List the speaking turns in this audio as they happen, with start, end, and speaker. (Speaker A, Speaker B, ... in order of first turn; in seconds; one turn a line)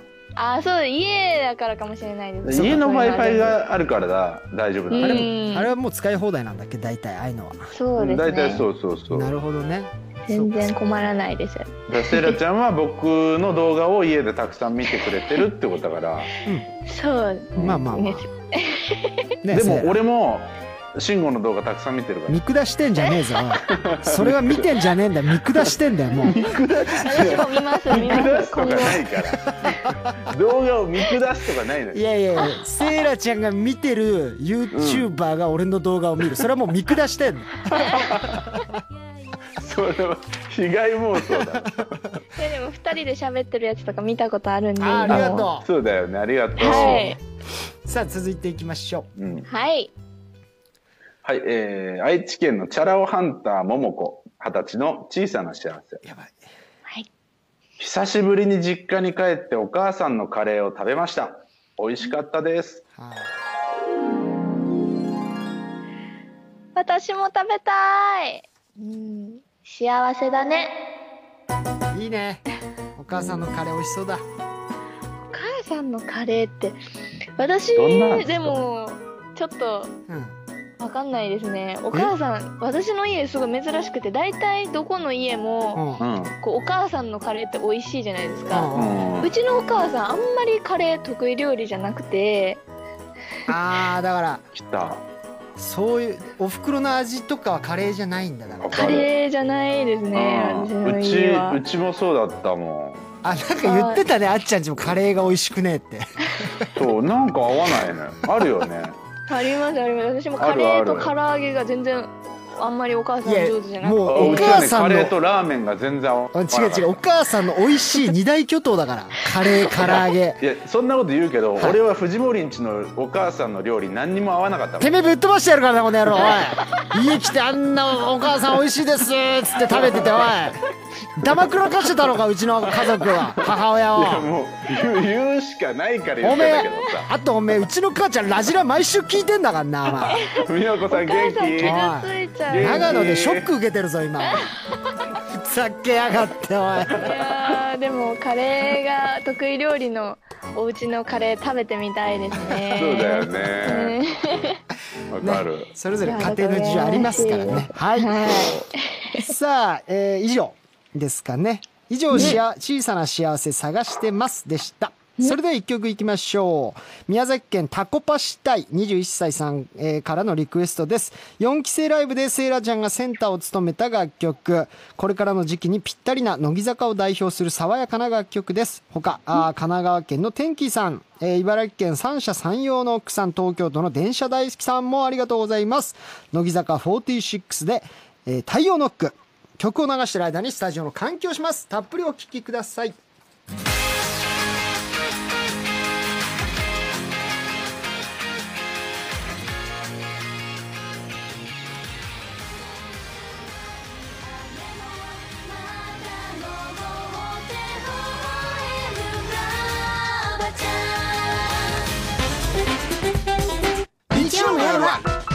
Speaker A: 0.3-3.6
Speaker B: 2.4-5.3
Speaker A: 4.9-5.7
Speaker C: 5.0-7.7
Speaker A: 7.7-8.7
Speaker B: 8.0-9.3
Speaker C: 9.1-10.7
Speaker A: 10.3-12.3
Speaker B: 11.9-16.3
Speaker A: 16.8-19.3
Speaker B: 17.6-17.9
Speaker C: 17.6-18.2
Speaker C: 19.4-20.0
Speaker B: 19.5-22.4
Speaker C: 22.3-26.4
Speaker B: 23.7-24.9
Speaker B: 25.5-32.0
Speaker A: 27.0-29.0
Speaker C: 29.4-30.2
Speaker C: 31.9-38.7
Speaker B: 34.7-35.1
Speaker A: 37.7-38.1
Speaker B: 37.9-38.4
Speaker B: 39.5-42.0
Speaker A: 42.4-45.5
Speaker C: 44.8-45.7
Speaker B: 45.1-47.1
Speaker A: 46.6-47.2
Speaker C: 46.6-47.1
Speaker C: 47.8-49.1
Speaker B: 49.2-49.5
Speaker A: 49.5-49.9
Speaker B: 51.2-56.0
Speaker C: 56.0-56.4
Speaker B: 57.8-62.8
Speaker C: 63.0-63.4
Speaker A: 66.7-70.8
Speaker C: 71.9-72.4
Speaker C: 73.0-74.2
Speaker A: 75.3-76.8
Speaker A: 77.4-79.9
Speaker B: 77.7-78.6
Speaker C: 80.1-80.3
Speaker A: 80.8-85.9
Speaker C: 85.7-86.0
Speaker B: 86.0-86.4
Speaker A: 86.4-92.6
Speaker C: 88.5-89.1
Speaker B: 88.7-89.3
Speaker C: 93.5-94.5
Speaker B: 94.5-95.0
Speaker C: 95.6-98.9
Speaker B: 98.6-99.1
Speaker A: 98.7-101.6
Speaker B: 100.1-103.0
Speaker C: 103.2-106.7
Speaker A: 103.6-104.0
Speaker B: 106.7-109.0
Speaker A: 109.3-114.7
Speaker B: 110.4-111.1
Speaker C: 113.2-115.1
Speaker B: 114.0-117.0
Speaker C: 116.3-120.4
Speaker B: 119.7-124.9
Speaker C: 124.8-130.6
Speaker A: 126.4-126.8
Speaker B: 129.7-130.2
Speaker C: 131.2-134.3
Speaker B: 132.6-137.1
Speaker C: 136.2-140.2
Speaker A: 139.9-143.1
Speaker B: 140.4-141.8
Speaker C: 141.6-144.5
Speaker B: 142.4-143.5
Speaker A: 144.3-144.9
Speaker C: 145.1-147.0
Speaker B: 146.9-147.6
Speaker A: 146.9-154.6
Speaker C: 152.4-152.6
Speaker B: 152.7-154.0
Speaker B: 155.1-155.7
Speaker C: 155.2-158.4
Speaker A: 156.0-159.3
Speaker B: 158.2-158.7
Speaker C: 159.1-193.0
Speaker B: 162.1-162.4
Speaker D: 205.8-207.8
Speaker D: 208.4-211.6
Speaker C: 214.1-215.1
Speaker D: 214.1-215.0